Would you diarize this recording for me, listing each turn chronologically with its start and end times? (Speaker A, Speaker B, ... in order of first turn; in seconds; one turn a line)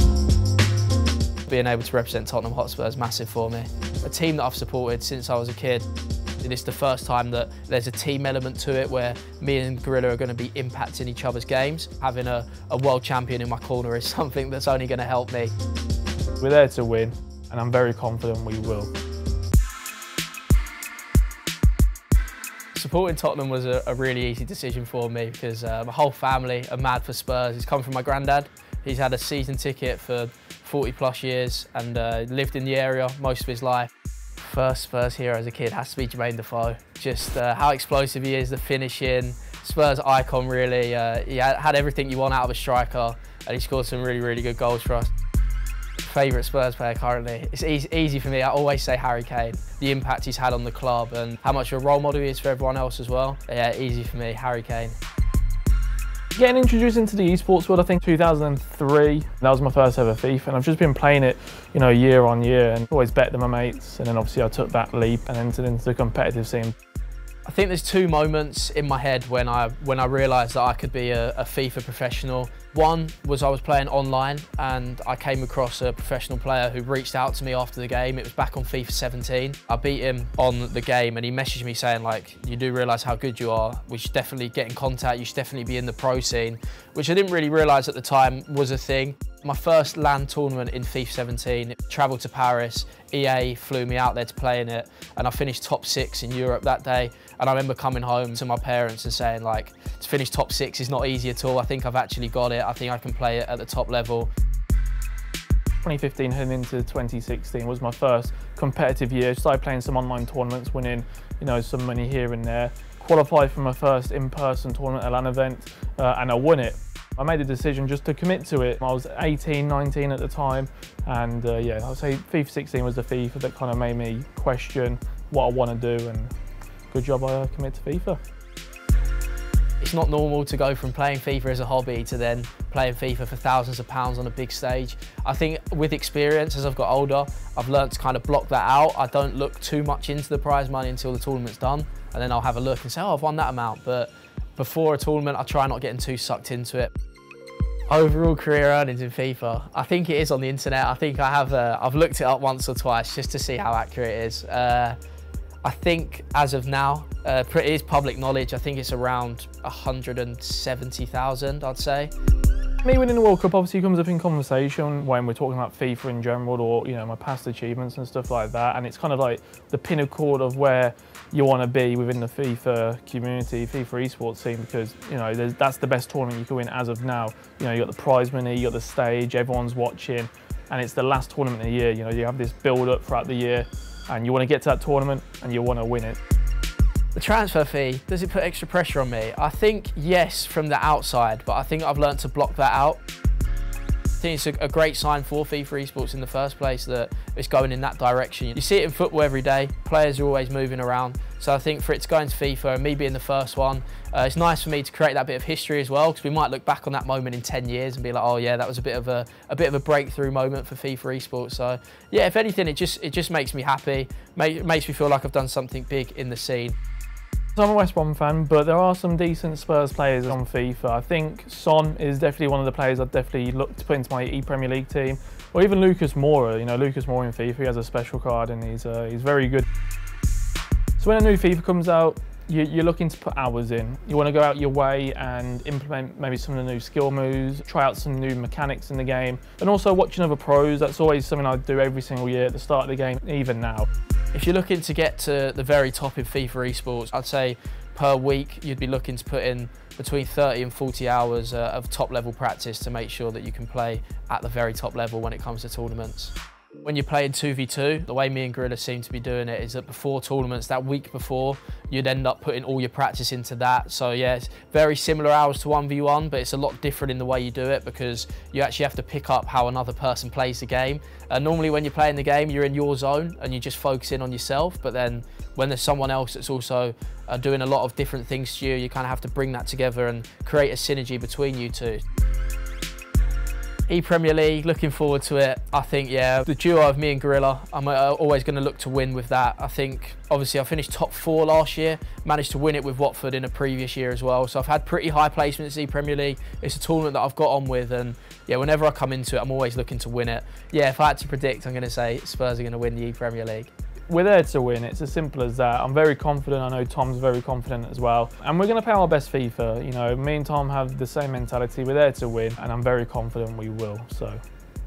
Speaker A: 1.5-5.9
Speaker A: 6.4-15.5
Speaker B: 16.4-18.9
Speaker A: 22.7-45.1
Speaker A: 46.0-55.0
Speaker B: 56.4-66.7
Speaker A: 67.5-104.3
Speaker B: 105.8-126.3
Speaker B: 126.9-128.2
Speaker A: 129.8-146.9
Speaker A: 147.9-155.0
Speaker A: 155.6-162.1
Speaker B: 162.8-186.2
Speaker A: 187.2-193.0
Speaker A: 194.2-216.8
Speaker B: 217.6-229.7
Speaker B: 231.0-243.9
Speaker A: 244.3-282.0
Speaker A: 283.9-303.7
Speaker B: 304.1-314.4